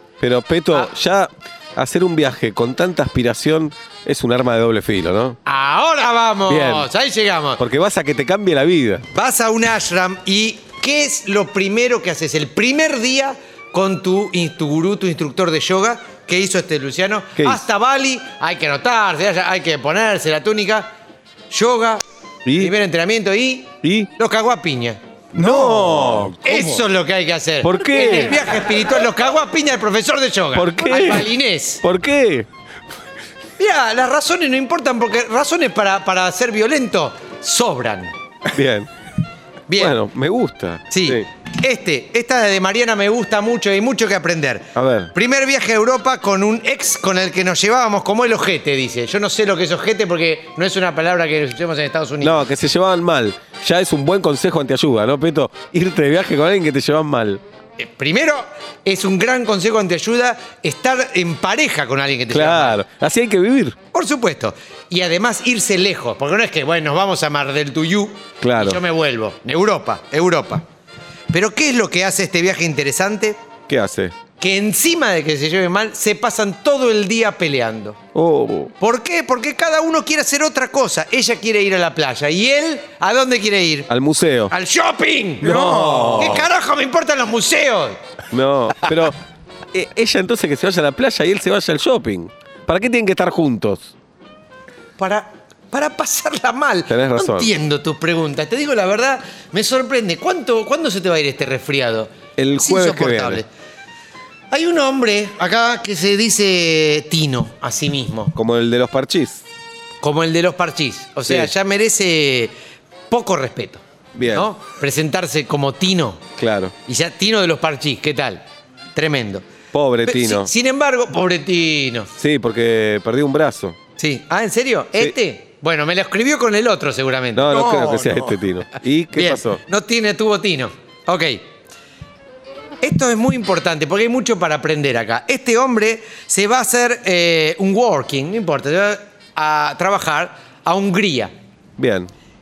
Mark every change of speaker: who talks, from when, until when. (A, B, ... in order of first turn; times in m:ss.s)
0:00.2-0:05.4 A
0:05.5-0:07.6 B
0:06.5-0:06.9 A
0:07.6-0:09.0 A
0:09.1-0:20.9 B
0:17.4-0:17.6 A
0:21.5-0:22.0 B
0:22.5-0:22.7 A
0:22.6-0:31.8 B
0:23.8-0:24.1 A
0:25.4-0:26.7 A
0:27.6-0:28.4 A
0:30.6-0:31.3 A
0:31.8-0:32.5 A
0:33.6-0:38.1 B
0:38.5-0:38.9 A
0:39.7-0:40.0 B
0:39.8-0:41.2 A
0:40.9-0:52.5 B
0:44.8-0:45.1 A
0:52.2-0:57.4 A
0:57.8-1:02.8 B
1:02.3-1:03.8 A
1:03.9-1:10.6 B
1:08.4-1:08.8 A
1:11.3-1:13.4 B
1:13.7-1:14.2 A
1:14.4-1:18.0 B
1:18.1-1:18.7 A
1:18.8-1:23.9 B
1:23.9-1:24.5 A
1:24.5-1:28.0 B
1:25.4-1:26.5 A
1:28.3-1:29.2 A
1:29.7-1:33.9 A
1:35.0-1:43.5 B
1:36.9-1:37.5 A
1:42.4-1:43.4 A
1:44.5-1:48.4 B
1:48.4-1:49.4 A
1:50.0-1:52.5 B
1:51.3-1:51.5 A
1:53.1-1:56.2 B
1:54.2-1:54.5 A
1:56.4-1:56.7 A
1:56.9-1:58.4 B
1:59.0-1:59.4 B
1:59.7-2:00.5 A
2:00.0-2:02.1 B
2:02.2-2:03.8 A
2:04.0-2:08.4 B
2:07.4-2:09.6 A
2:09.1-2:11.4 B
2:12.8-2:21.3 B
2:21.8-2:22.1 A